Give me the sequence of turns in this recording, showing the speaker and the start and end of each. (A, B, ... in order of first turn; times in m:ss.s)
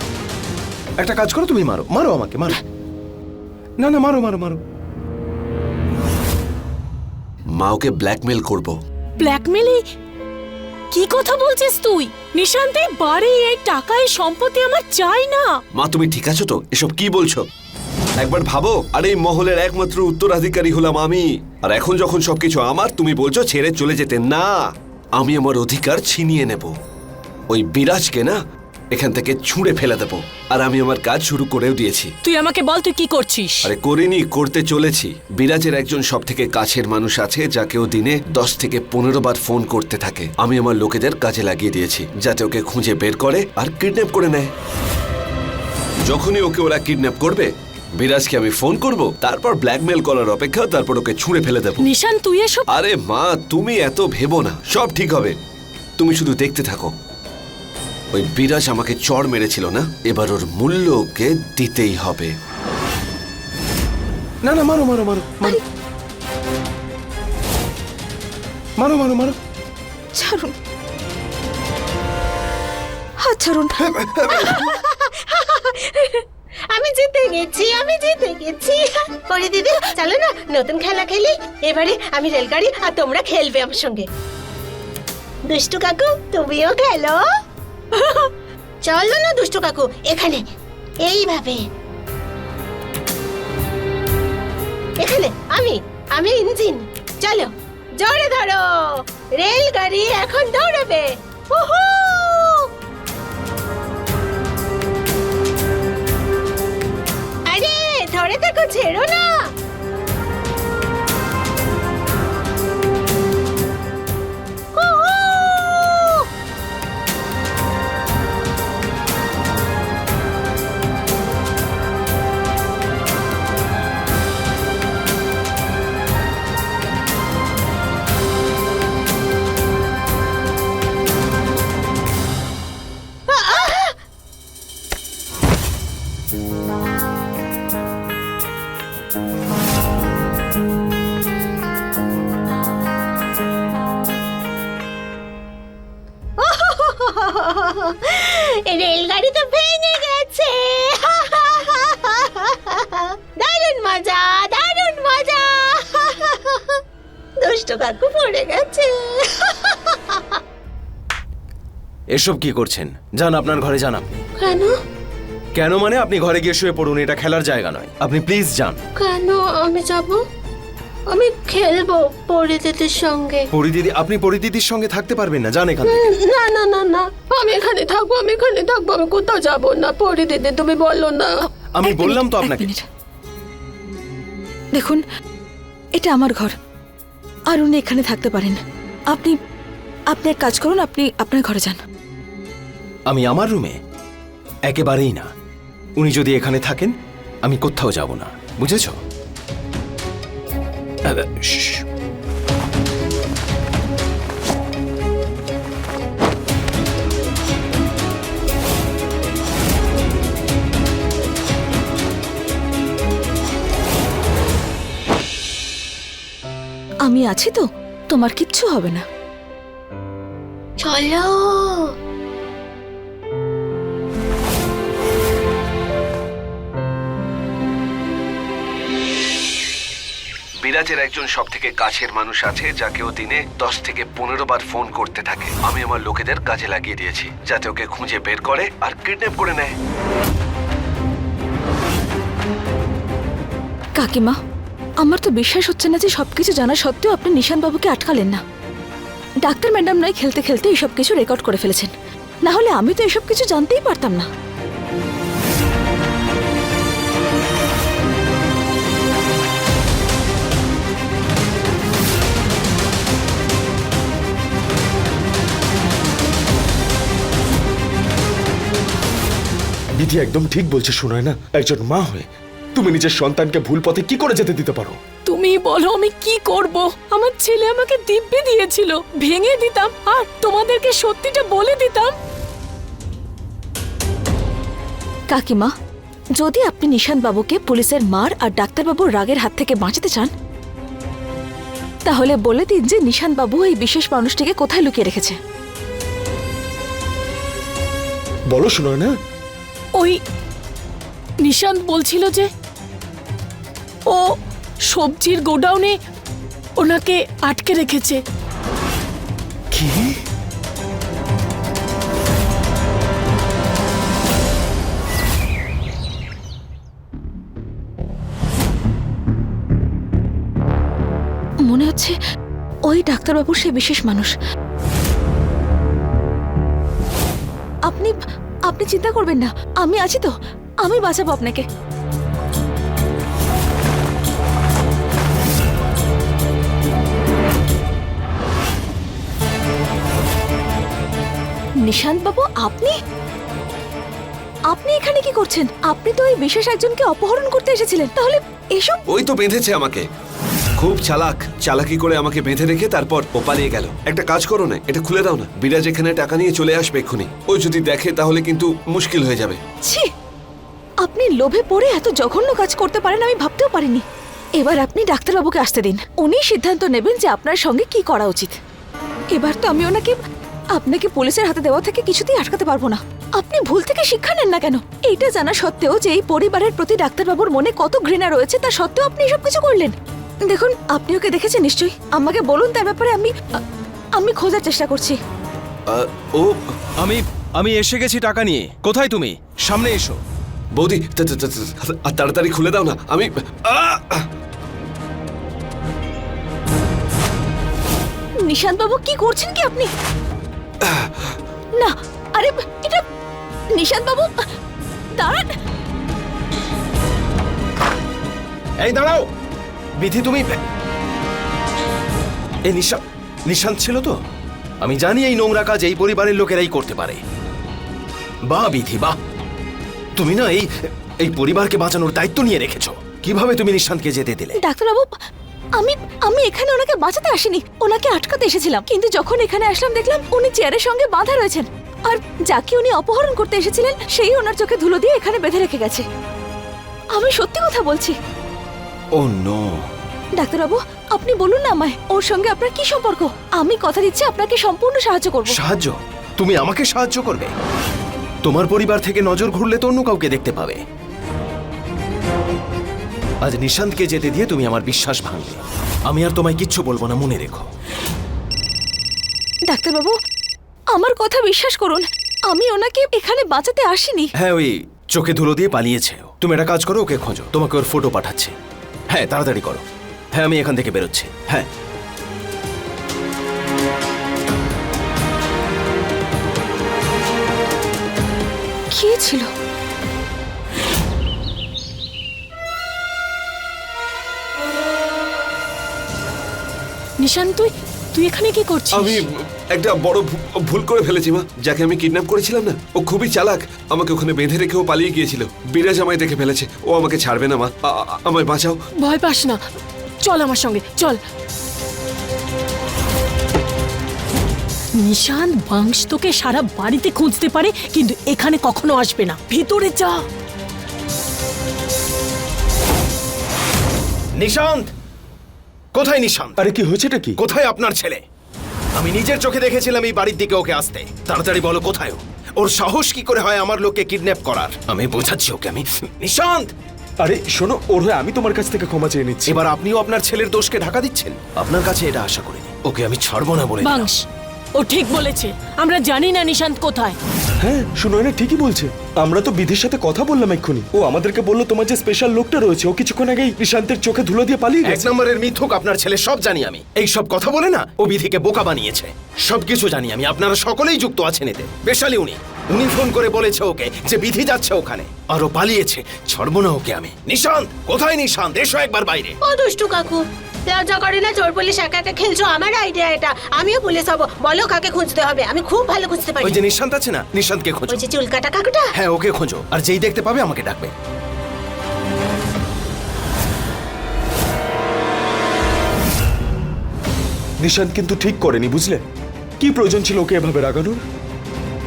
0:01.0-0:02.6 A
0:03.8-0:04.6 A
0:07.5-0:08.8 B
0:09.2-0:09.8 C
0:10.9-0:15.5 C
0:15.7-0:17.4 B
0:18.2-0:26.7 B
0:27.5-0:28.4 B
0:28.9-0:32.1 B
0:32.2-0:33.7 C
0:33.6-0:44.5 B
0:46.0-0:51.9 B
0:51.8-0:52.7 C
0:52.7-0:55.4 B
0:56.0-0:56.9 B
0:58.1-1:02.3 B
1:04.4-1:05.6 A
1:08.8-1:09.4 A
1:10.1-1:10.5 D
1:13.2-1:13.8 D
1:13.8-1:14.5 A
1:14.3-1:24.1 E
1:25.5-1:27.2 E
1:27.9-1:28.3 E
1:28.8-1:30.4 E
1:31.0-1:31.6 E
1:35.0-1:42.7 E
1:47.5-1:49.3 E
1:54.7-1:56.2 E
2:13.3-2:13.9 E
2:26.4-2:36.8 E
2:37.4-2:40.4 E
2:42.1-2:44.2 A
2:44.4-2:44.7 E
2:45.5-2:48.8 A
2:49.0-2:50.2 E
2:51.1-2:53.5 E
2:53.5-2:56.1 A
2:55.8-3:01.4 E
3:01.7-3:02.7 A
3:01.8-3:02.8 D
3:04.7-3:05.0 D
3:06.0-3:06.5 D
3:07.5-3:09.4 D
3:10.1-3:11.8 D
3:13.1-3:13.8 A
3:14.7-3:15.3 A
3:16.0-3:19.0 A
3:21.0-3:21.8 A
3:37.0-3:39.0 D
3:40.8-3:41.9 E
3:50.6-3:59.7 B
4:04.0-4:04.4 D
4:05.0-4:08.4 D
4:09.4-4:11.9 D
4:12.4-4:14.3 D
4:30.0-4:35.0 F
4:35.2-4:42.1 C
4:45.3-4:45.7 D
4:46.4-4:50.3 D
4:52.0-4:55.4 D
4:58.5-4:59.1 F
5:01.4-5:02.5 C
5:04.9-5:06.0 C
5:06.8-5:08.2 C
5:09.7-5:10.1 F
5:21.6-5:22.1 D
5:22.9-5:24.3 D
5:27.9-5:28.2 D
5:28.7-5:31.6 D
5:41.8-5:43.0 D
5:44.7-5:49.0 D
5:49.1-5:50.0 B
5:50.8-5:59.6 B
5:59.8-6:00.1 D
6:01.0-6:04.0 D
6:04.6-6:08.5 D
6:09.3-6:10.2 D
6:10.7-6:19.9 D
6:20.4-6:23.3 D
6:24.2-6:25.2 D
6:25.9-6:26.7 B
6:27.0-6:30.2 A
6:30.8-6:34.3 B
6:38.4-6:39.9 D
6:40.8-6:41.3 B
6:41.8-6:43.0 D
6:43.7-6:44.4 D
6:45.2-6:45.5 D
6:48.8-6:49.2 A
6:50.0-6:50.6 A
6:52.6-6:54.2 A
6:54.8-6:57.2 A
6:58.5-6:59.2 A
7:00.2-7:04.6 A
7:04.6-7:05.1 D
7:05.8-7:16.0 D
7:17.1-7:18.2 D
7:19.1-7:19.9 A
7:20.4-7:25.6 D
7:25.4-7:27.5 A
7:28.4-7:30.8 A
7:33.4-7:37.7 A
7:39.7-7:40.2 D
7:40.9-7:44.3 D
7:44.4-7:48.5 A
7:49.1-7:49.8 A
7:50.3-7:51.7 A
7:58.9-7:59.5 D
8:07.2-8:09.2 C
8:08.9-8:18.8 B
8:19.0-8:19.6 C
8:20.2-8:21.2 C
8:25.0-8:30.2 C
8:34.4-8:34.9 A
8:35.9-8:36.6 A
8:36.6-8:37.4 F
8:37.4-8:38.2 A
8:39.0-8:46.7 A
8:47.2-8:49.6 F
8:49.5-8:54.1 A
8:53.8-8:54.2 C
8:54.8-8:57.2 C
8:57.6-9:05.0 F
9:04.8-9:19.4 A
9:19.4-9:26.6 E
9:26.4-9:28.0 A
9:27.9-9:28.9 E
9:28.9-9:30.9 A
9:37.6-9:39.0 F
9:39.6-9:41.0 F